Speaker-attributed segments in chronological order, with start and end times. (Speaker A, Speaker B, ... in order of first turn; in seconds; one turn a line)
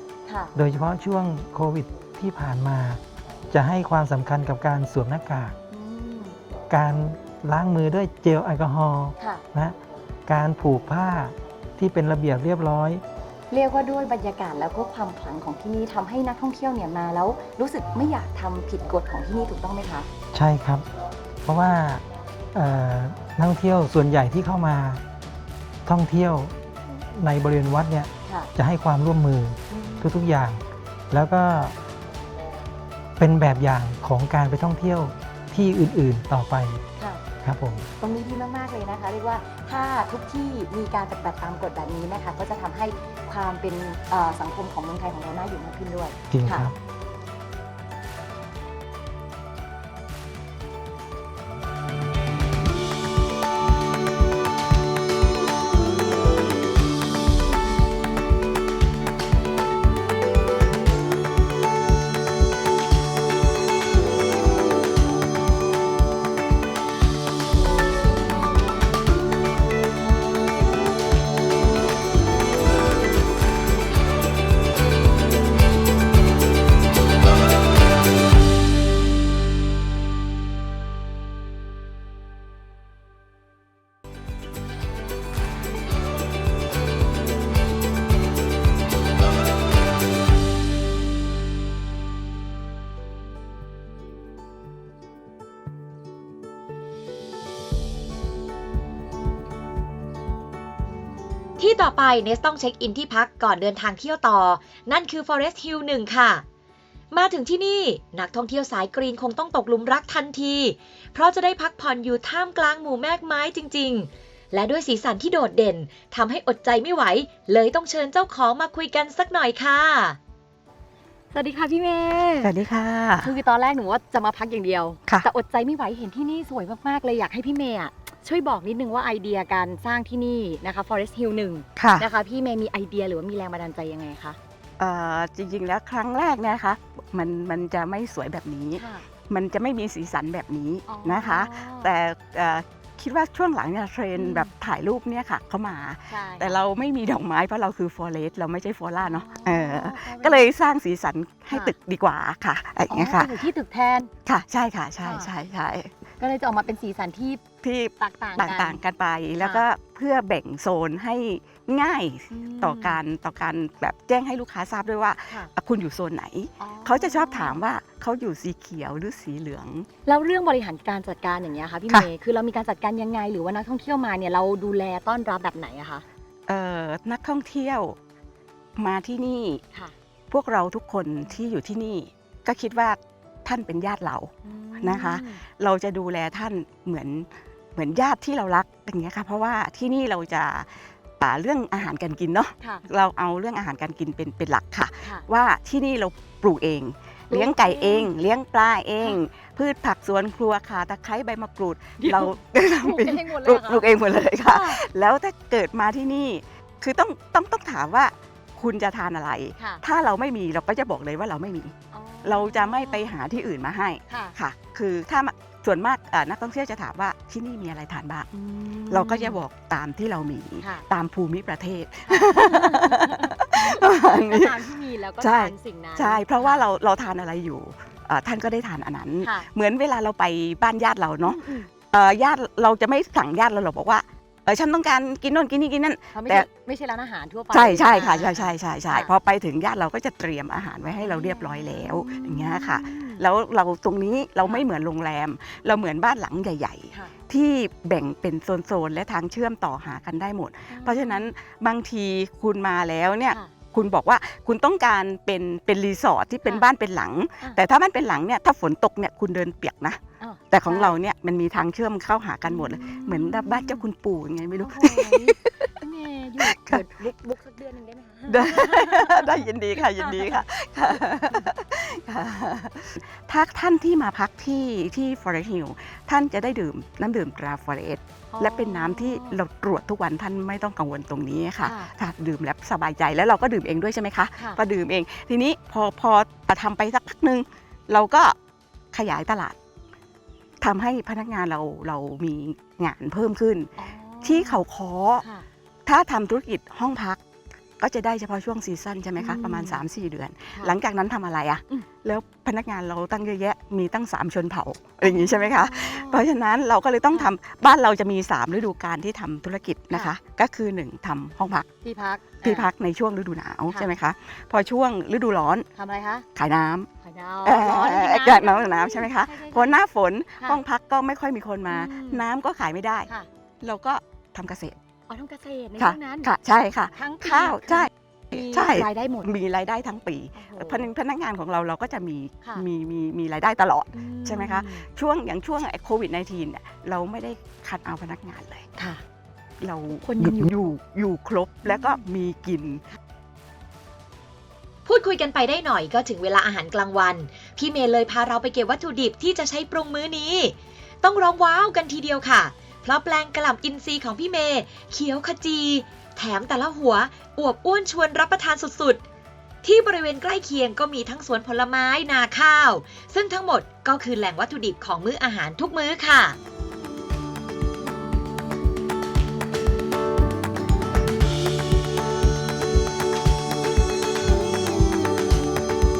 Speaker A: 0.3-0.5
Speaker B: 0.5-5.5
Speaker A: 5.7-6.4
Speaker B: 6.7-9.8
Speaker B: 10.3-13.0
Speaker A: 13.5-20.1
Speaker B: 20.3-20.8
Speaker B: 21.4-25.0
Speaker B: 25.9-31.8
Speaker A: 29.7-30.1
Speaker B: 33.2-36.8
Speaker A: 37.0-37.2
Speaker B: 37.4-37.9
Speaker A: 38.0-46.7
Speaker B: 46.3-46.7
Speaker C: 101.6-106.4
Speaker C: 107.1-120.2
Speaker A: 121.3-122.5
Speaker D: 122.4-123.3
Speaker A: 123.2-134.4
Speaker D: 131.8-132.1
Speaker D: 134.8-153.4
Speaker A: 138.8-139.1
Speaker A: 140.9-141.9
Speaker A: 144.1-144.5
Speaker A: 146.1-146.6
Speaker A: 149.0-150.5
Speaker A: 152.9-154.1
Speaker D: 154.2-155.9
Speaker A: 155.0-155.3
Speaker A: 156.2-157.4
Speaker D: 157.6-169.9
Speaker A: 158.0-158.8
Speaker A: 159.4-159.6
Speaker A: 162.3-163.0
Speaker A: 166.6-167.6
Speaker A: 170.1-176.0
Speaker D: 176.5-178.0
Speaker D: 178.8-179.6
Speaker D: 180.3-218.3
Speaker A: 184.4-185.4
Speaker A: 197.3-198.1
Speaker A: 202.0-204.8
Speaker A: 211.9-213.1
Speaker A: 214.1-214.3
Speaker A: 218.3-219.4
Speaker D: 218.9-224.6
Speaker A: 220.6-220.8
Speaker A: 222.1-226.6
Speaker D: 225.2-236.5
Speaker A: 229.2-229.5
Speaker A: 231.2-231.7
Speaker A: 236.1-239.1
Speaker D: 237.5-265.7
Speaker A: 241.0-243.2
Speaker A: 250.7-251.3
Speaker A: 260.2-260.9
Speaker A: 262.4-263.8
Speaker A: 264.6-271.5
Speaker D: 266.4-266.9
Speaker D: 268.3-288.4
Speaker A: 278.3-279.4
Speaker A: 281.6-281.9
Speaker D: 288.9-289.6
Speaker D: 290.6-293.7
Speaker A: 293.8-294.6
Speaker D: 294.2-295.2
Speaker D: 295.9-297.2
Speaker D: 297.8-311.7
Speaker A: 299.2-299.9
Speaker A: 305.0-306.2
Speaker A: 311.8-312.7
Speaker D: 312.4-315.7
Speaker A: 315.7-316.2
Speaker D: 316.3-316.9
Speaker A: 317.0-319.8
Speaker D: 317.4-323.1
Speaker A: 321.7-322.2
Speaker D: 323.6-324.8
Speaker A: 325.1-326.3
Speaker D: 325.8-338.7
Speaker A: 326.9-329.3
Speaker A: 330.3-330.9
Speaker A: 333.9-334.9
Speaker D: 339.6-342.8
Speaker A: 339.9-340.7
Speaker A: 341.6-342.0
Speaker C: 344.9-359.0
Speaker C: 359.6-366.4